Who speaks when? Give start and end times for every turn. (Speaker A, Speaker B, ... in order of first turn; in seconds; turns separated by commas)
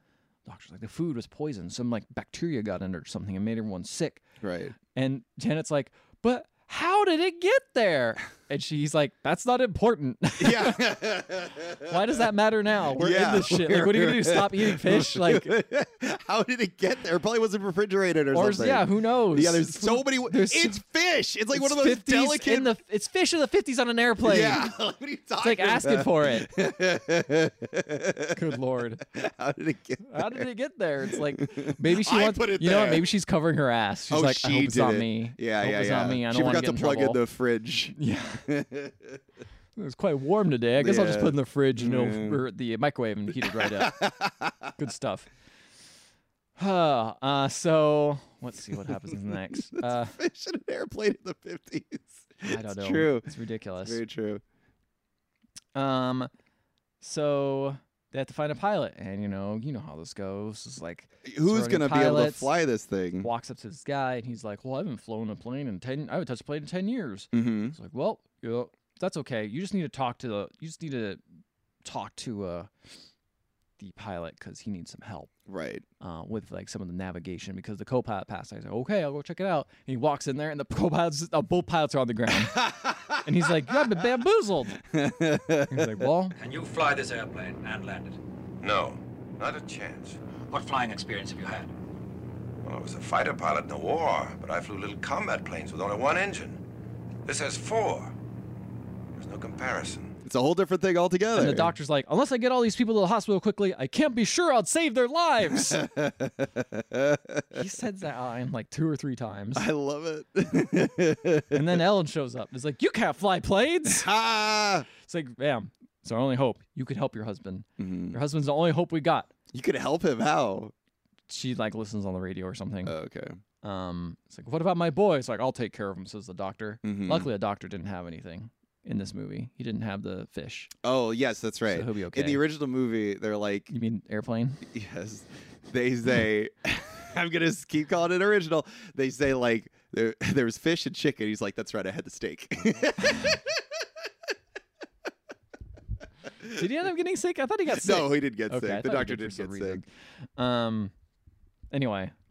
Speaker A: 0.5-4.2, Speaker B: 4.4-4.7, Speaker A: 4.8-10.9, Speaker B: 10.4-12.0, Speaker A: 11.8-15.5, Speaker B: 12.9-22.7, Speaker A: 18.3-20.8, Speaker A: 21.5-24.7, Speaker B: 24.2-30.5, Speaker A: 25.4-26.5, Speaker A: 28.3-29.0, Speaker A: 30.1-37.2, Speaker B: 31.1-33.1, Speaker B: 34.1-37.9, Speaker A: 37.9-38.5, Speaker B: 38.5-39.2, Speaker A: 39.8-44.0, Speaker B: 40.8-42.4, Speaker B: 43.4-44.7, Speaker A: 44.8-45.3, Speaker A: 46.6-50.1, Speaker B: 49.0-53.3, Speaker A: 52.4-54.0, Speaker B: 53.8-54.4, Speaker A: 55.7-56.3, Speaker A: 57.0-62.5, Speaker B: 61.2-63.3, Speaker A: 63.2-71.2, Speaker B: 67.3-67.8, Speaker A: 71.8-72.7, Speaker A: 73.8-75.3, Speaker B: 75.5-75.8, Speaker A: 76.0-84.8, Speaker B: 82.6-83.2, Speaker B: 84.9-86.0, Speaker A: 85.7-86.3, Speaker C: 86.3-88.2, Speaker D: 88.6-90.2, Speaker C: 90.5-91.7, Speaker D: 92.6-96.6, Speaker D: 97.2-98.1, Speaker D: 99.1-100.1, Speaker B: 100.2-101.7, Speaker A: 101.3-105.8, Speaker B: 105.5-107.6, Speaker A: 107.5-109.7, Speaker B: 109.5-111.8, Speaker A: 111.5-114.1, Speaker B: 113.8-114.9, Speaker A: 115.0-119.3, Speaker B: 117.8-118.2, Speaker B: 119.5-120.7, Speaker A: 121.3-122.9, Speaker B: 122.8-123.4, Speaker A: 123.6-130.7, Speaker B: 126.8-127.3, Speaker B: 130.8-133.7, Speaker A: 131.7-132.4, Speaker A: 133.7-134.6, Speaker B: 134.7-143.6, Speaker A: 146.5-150.9, Speaker B: 147.7-149.8, Speaker A: 151.7-152.1